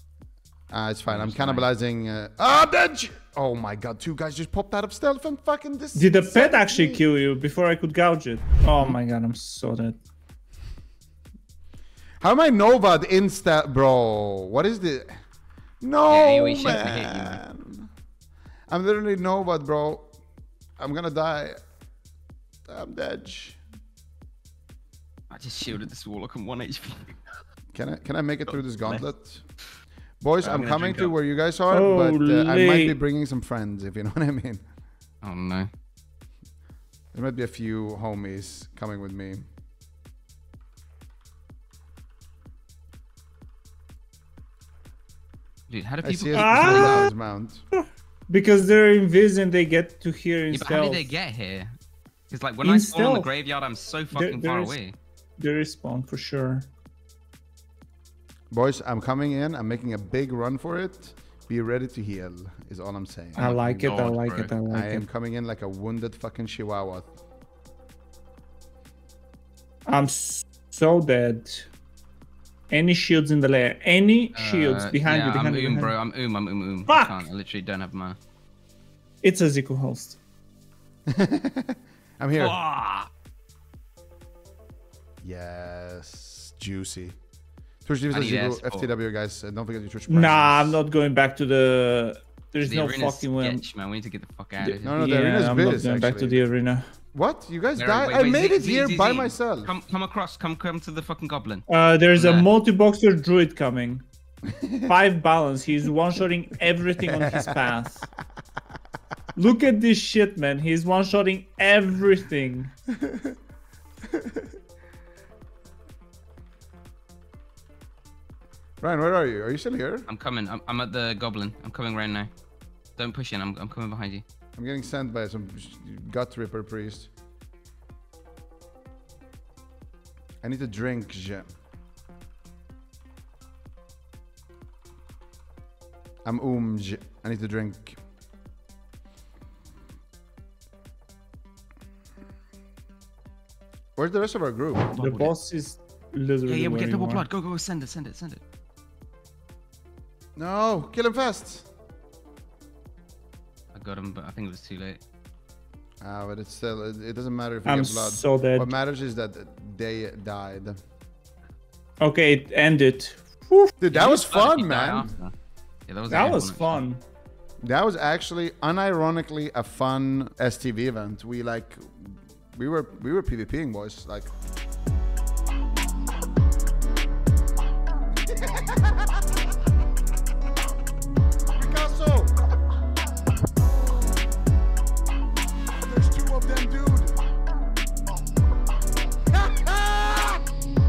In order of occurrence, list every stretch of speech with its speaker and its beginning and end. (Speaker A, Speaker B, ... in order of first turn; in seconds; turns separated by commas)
Speaker A: 0.7-7.0, Speaker B: 1.1-1.7, Speaker C: 6.0-10.0, Speaker A: 12.2-15.2, Speaker A: 15.8-17.9, Speaker B: 16.1-17.4, Speaker A: 18.7-20.1, Speaker A: 20.8-21.6, Speaker A: 22.7-23.6, Speaker B: 25.3-27.2, Speaker A: 27.7-29.4, Speaker B: 28.5-29.0, Speaker A: 30.2-34.6, Speaker B: 30.4-31.1, Speaker C: 31.7-33.0, Speaker B: 35.2-35.7, Speaker A: 37.1-39.4, Speaker B: 45.7-47.1, Speaker A: 46.0-47.6, Speaker C: 46.4-46.9, Speaker C: 48.3-51.1, Speaker B: 50.5-51.7, Speaker B: 52.3-55.0, Speaker C: 52.6-53.3, Speaker C: 54.1-54.8, Speaker C: 55.4-56.7, Speaker A: 58.5-63.5, Speaker B: 63.4-64.5, Speaker C: 63.4-65.0, Speaker A: 64.7-67.1, Speaker C: 69.9-71.7, Speaker C: 72.7-76.0, Speaker B: 74.3-78.2, Speaker C: 76.9-77.2, Speaker C: 79.2-80.2, Speaker A: 81.1-82.6, Speaker B: 82.4-83.1, Speaker A: 85.2-87.2, Speaker A: 87.8-90.8, Speaker B: 88.1-88.9, Speaker C: 90.1-93.6, Speaker B: 92.6-95.0, Speaker C: 94.6-96.9, Speaker A: 94.8-96.5, Speaker A: 97.1-99.7, Speaker B: 97.8-102.5, Speaker C: 101.7-104.0, Speaker A: 104.5-104.9, Speaker C: 104.9-108.1, Speaker A: 107.1-107.5, Speaker C: 109.4-112.7, Speaker A: 118.8-120.1, Speaker B: 120.1-122.3, Speaker B: 123.0-124.2, Speaker A: 124.6-127.1, Speaker A: 130.4-131.5, Speaker A: 136.2-138.0, Speaker A: 144.0-145.0, Speaker B: 144.9-145.3, Speaker C: 145.0-147.3, Speaker B: 146.5-148.4, Speaker A: 150.4-151.7, Speaker B: 153.7-155.0, Speaker A: 156.0-160.8, Speaker C: 157.7-158.7, Speaker C: 162.0-163.7, Speaker A: 163.8-165.1, Speaker B: 163.9-165.3, Speaker B: 165.9-166.8, Speaker C: 166.1-167.0, Speaker A: 167.6-174.3, Speaker A: 178.4-178.8, Speaker A: 181.5-182.3, Speaker A: 185.8-187.2, Speaker A: 189.3-190.4